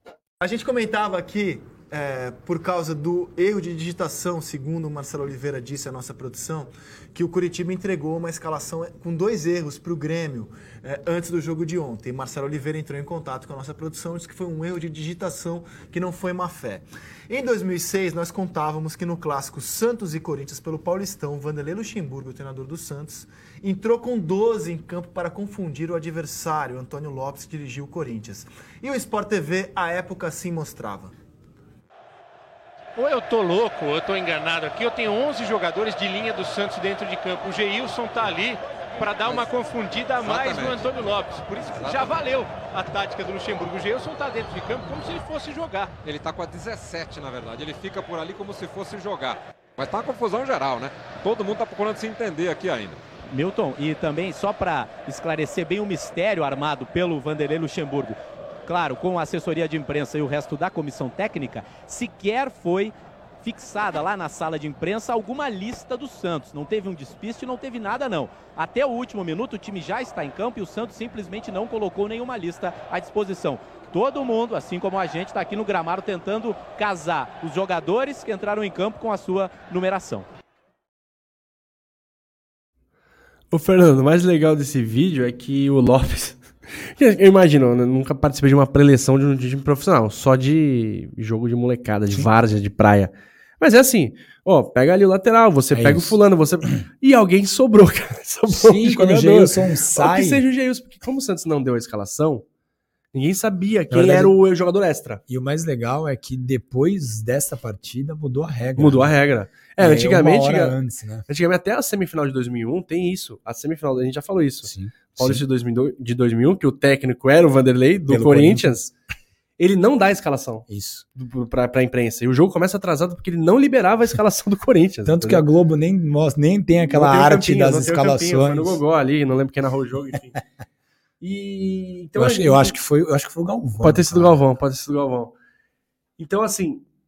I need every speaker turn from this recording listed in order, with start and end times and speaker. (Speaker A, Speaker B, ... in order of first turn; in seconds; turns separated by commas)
Speaker A: 0.4-31.1, Speaker B: 33.0-46.0, Speaker C: 40.2-40.8, Speaker C: 41.7-42.1, Speaker C: 46.0-53.0, Speaker D: 53.3-80.2, Speaker E: 83.5-102.4, Speaker F: 95.7-96.2, Speaker F: 98.5-100.4, Speaker E: 103.1-105.2, Speaker F: 103.9-104.3, Speaker F: 105.3-109.1, Speaker E: 108.8-110.8, Speaker F: 109.8-111.2, Speaker E: 111.3-118.9, Speaker F: 114.6-115.4, Speaker F: 118.1-118.8, Speaker E: 119.6-125.4, Speaker F: 120.7-121.0, Speaker F: 125.0-128.8, Speaker E: 126.9-130.4, Speaker E: 131.2-132.7, Speaker F: 132.2-134.4, Speaker E: 133.8-135.3, Speaker E: 136.2-136.8